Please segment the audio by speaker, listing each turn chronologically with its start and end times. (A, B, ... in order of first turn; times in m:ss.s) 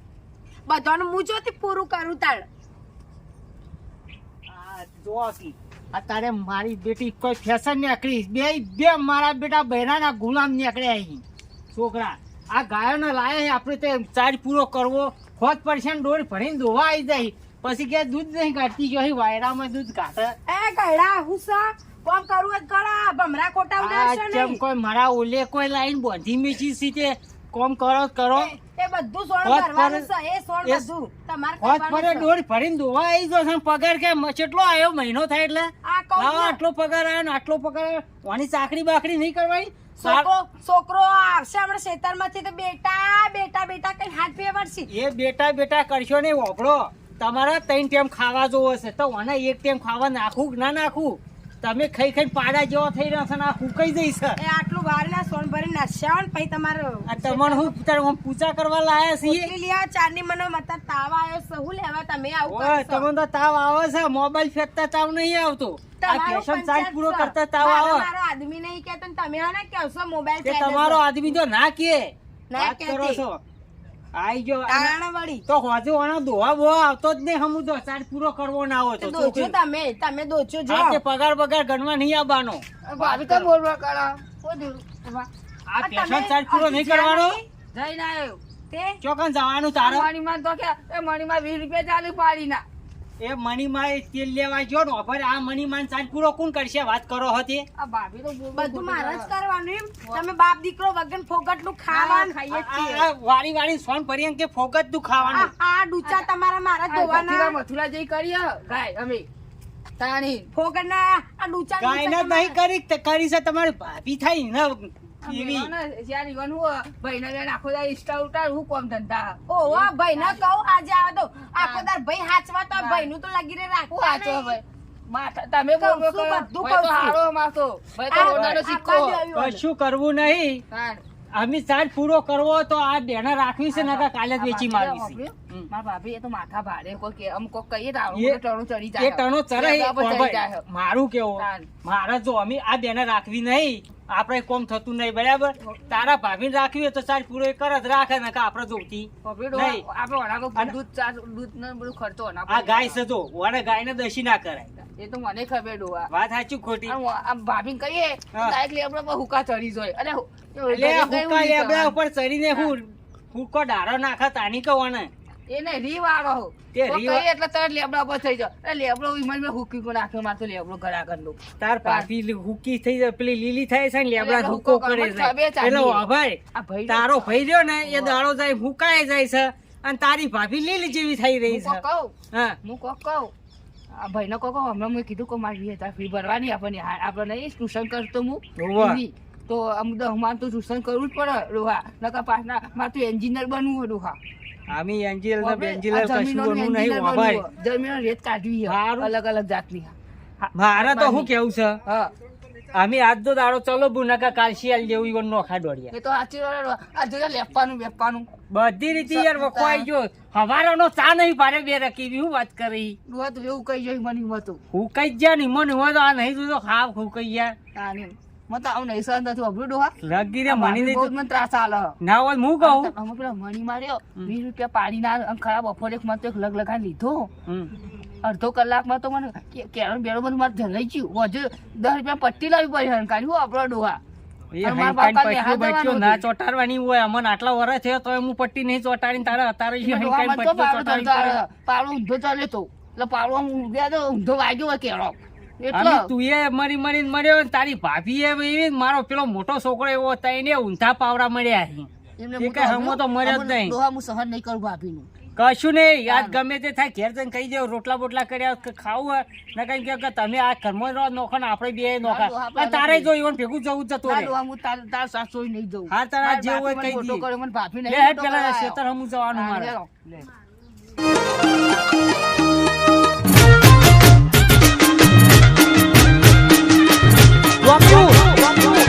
0:00.7-0:02.4 A
0:04.5-0:20.4 B
0:20.5-0:24.6 A
0:23.8-0:28.5 B
0:28.3-0:32.3 A
0:29.4-0:30.1 B
0:31.6-0:40.3 B
0:35.8-0:36.6 A
0:40.0-0:44.9 A
0:44.9-0:54.4 B
0:54.4-0:57.7 A
0:57.0-0:59.5 B
0:59.2-1:03.1 A
1:02.4-1:08.1 B
1:06.0-1:11.4 A
1:10.4-1:13.4 B
1:12.5-1:13.2 A
1:14.1-1:19.5 B
1:14.7-1:15.4 A
1:19.0-1:21.0 A
1:20.7-1:23.5 B
1:22.8-1:25.3 C
1:25.6-1:27.4 B
1:25.8-1:27.4 A
1:27.7-1:28.4 C
1:28.7-1:29.0 A
1:29.0-1:30.1 B
1:29.8-1:32.6 C
1:33.2-1:37.6 B
1:37.8-1:39.3 C
1:38.5-1:42.4 A
1:41.9-1:43.1 C
1:42.5-1:45.5 B
1:45.2-1:45.5 C
1:45.3-1:47.6 A
1:46.9-1:49.2 C
1:50.0-1:50.5 C
1:50.5-1:52.6 A
1:51.8-1:55.7 B
1:55.2-2:00.4 C
1:59.5-2:04.6 A
2:01.6-2:01.8 C
2:02.8-2:03.1 C
2:03.9-2:09.2 C
2:05.8-2:07.2 A
2:08.1-2:09.6 A
2:08.2-2:08.6 B
2:09.3-2:10.6 B
2:10.7-2:11.0 C
2:11.3-2:15.7 B
2:13.7-2:20.6 C
2:18.1-2:18.4 B
2:19.0-2:29.8 B
2:21.4-2:21.7 C
2:29.2-2:33.0 C
2:32.5-2:34.8 B
2:34.9-2:36.1 C
2:36.1-2:37.0 B
2:36.9-2:42.0 C
2:40.7-2:45.1 B
2:45.5-2:52.1 C
2:46.7-2:47.2 B
2:51.6-3:02.6 B
2:54.2-2:56.0 C
2:56.5-2:58.2 C
3:01.5-3:03.3 C
3:03.9-3:14.2 C
3:08.6-3:09.0 B
3:14.7-3:17.4 B
3:15.4-3:19.9 C
3:18.6-3:19.1 B
3:20.5-3:21.8 B
3:20.7-3:21.3 C
3:21.8-3:22.1 C
3:22.7-3:25.9 B
3:25.9-3:28.3 C
3:28.5-3:33.0 B
3:29.1-3:29.9 C
3:33.1-3:34.6 C
3:34.7-3:37.6 B
3:37.7-3:42.0 C
3:40.0-3:41.1 B
3:42.0-3:42.9 B
3:42.6-3:47.3 C
3:47.4-3:47.7 B
3:48.2-3:54.0 C
3:54.5-4:01.4 B
3:54.6-3:56.2 C
3:59.8-4:06.1 C
4:05.7-4:13.8 B
4:12.2-4:15.1 C
4:15.4-4:24.3 B
4:16.1-4:16.4 C
4:22.0-4:23.1 C
4:24.0-4:28.8 C
4:25.9-4:27.3 B
4:27.9-4:29.8 B
4:29.3-4:30.2 C
4:37.6-4:38.3 B